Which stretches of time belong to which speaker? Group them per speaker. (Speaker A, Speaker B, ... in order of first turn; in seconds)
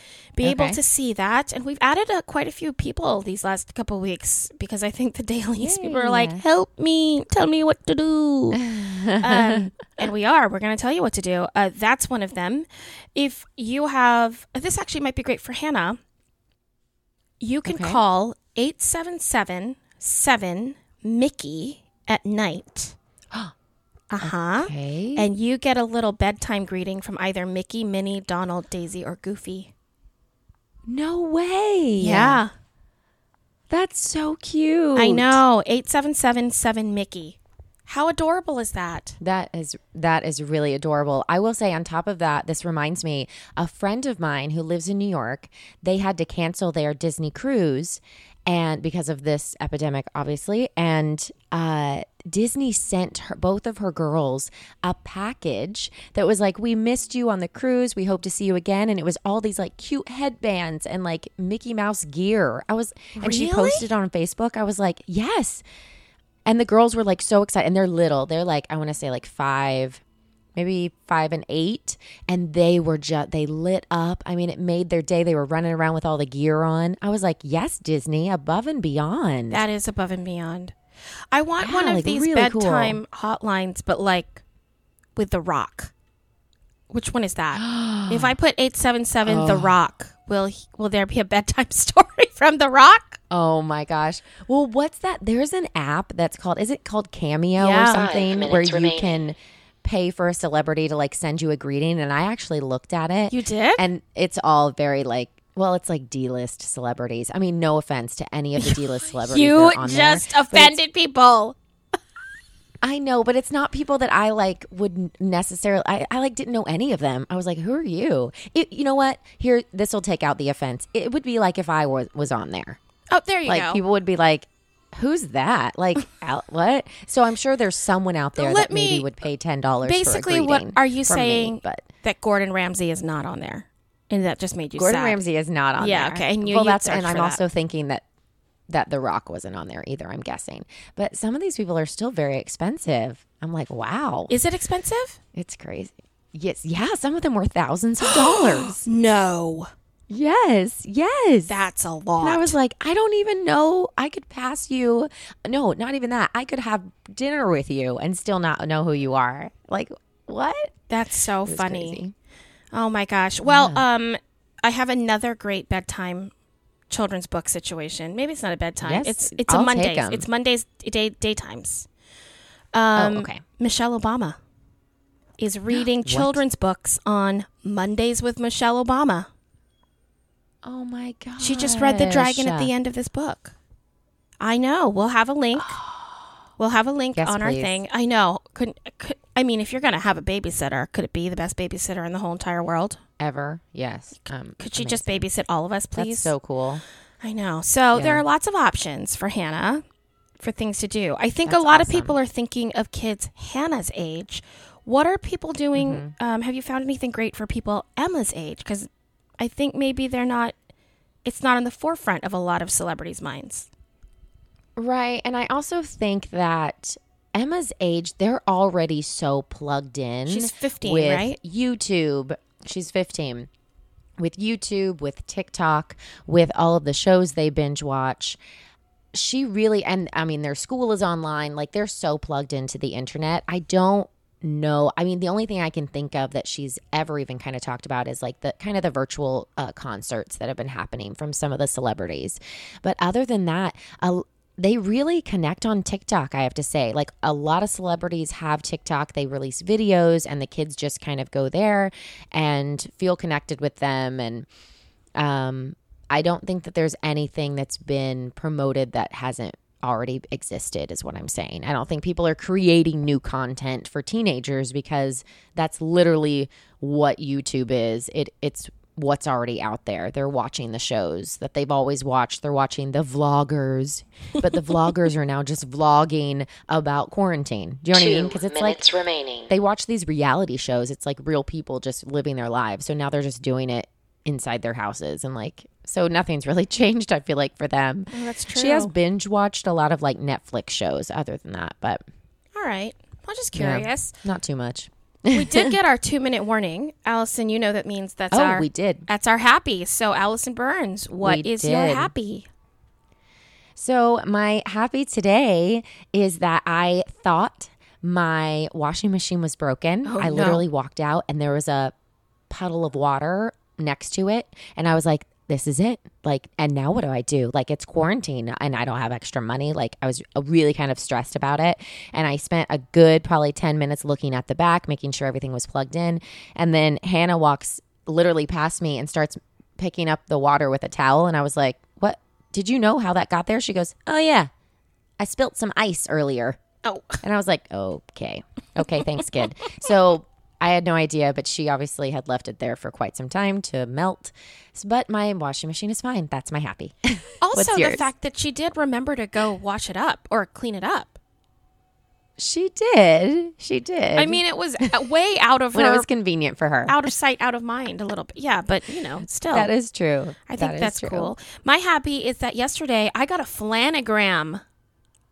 Speaker A: 0.3-8.6, 9.2-16.0, 17.4-22.9, 24.1-29.7, 32.0-32.5, 35.0-39.2, 63.1-63.9, 79.5-80.7, 81.3-84.4, 85.2-85.9, 86.9-93.2, 97.5-98.1, 103.3-103.8, 108.6-111.5, 123.1-123.8, 128.3-129.1, 129.8-135.2, 135.8-137.4, 144.3-145.2, 148.0-149.7, 151.5-152.6, 160.9-162.0, 162.7-166.3, 166.9-171.9, 172.7-174.4, 175.4-179.3, 181.4-183.5, 184.4-185.8, 186.6-193.0, 194.6-196.3, 197.2-199.8, 200.4-208.9, 209.4-210.5, 211.2-213.7, 220.3-221.3, 288.1-288.9, 292.6-294.1, 295.3-302.5, 310.0-310.6, 336.8-337.2, 347.4-351.2, 354.1-356.1, 356.9-359.7, 360.5-364.6
Speaker B: 0.4-0.8, 5.6-6.4, 8.6-9.6, 17.6-18.0, 24.2-25.3, 30.9-32.4, 33.7-35.4, 39.2-65.6, 66.5-70.0, 70.5-79.6, 81.6-83.0, 87.5-88.3, 89.2-89.8, 93.3-110.8, 112.8-122.8, 123.5-131.8, 134.8-138.0, 138.7-144.3, 145.3-148.8, 150.1-151.5, 152.2-160.7, 161.4-162.1, 163.4-163.8, 168.8-170.3, 172.9-173.4, 175.7-176.4, 180.6-182.7, 185.5-186.3, 187.1-187.8, 193.2-195.2, 195.9-196.8, 197.9-198.2, 201.4-202.2, 205.7-206.1, 214.8-223.5, 224.2-228.4, 229.1-254.5, 255.2-278.9, 279.5-292.0, 293.5-295.7, 298.3-299.1, 301.2-302.1, 303.8-311.9, 312.5-334.5, 335.2-336.6, 337.2-348.0, 352.4-354.9, 355.7-357.1, 359.3-361.3
Speaker C: 97.9-99.2, 277.9-279.5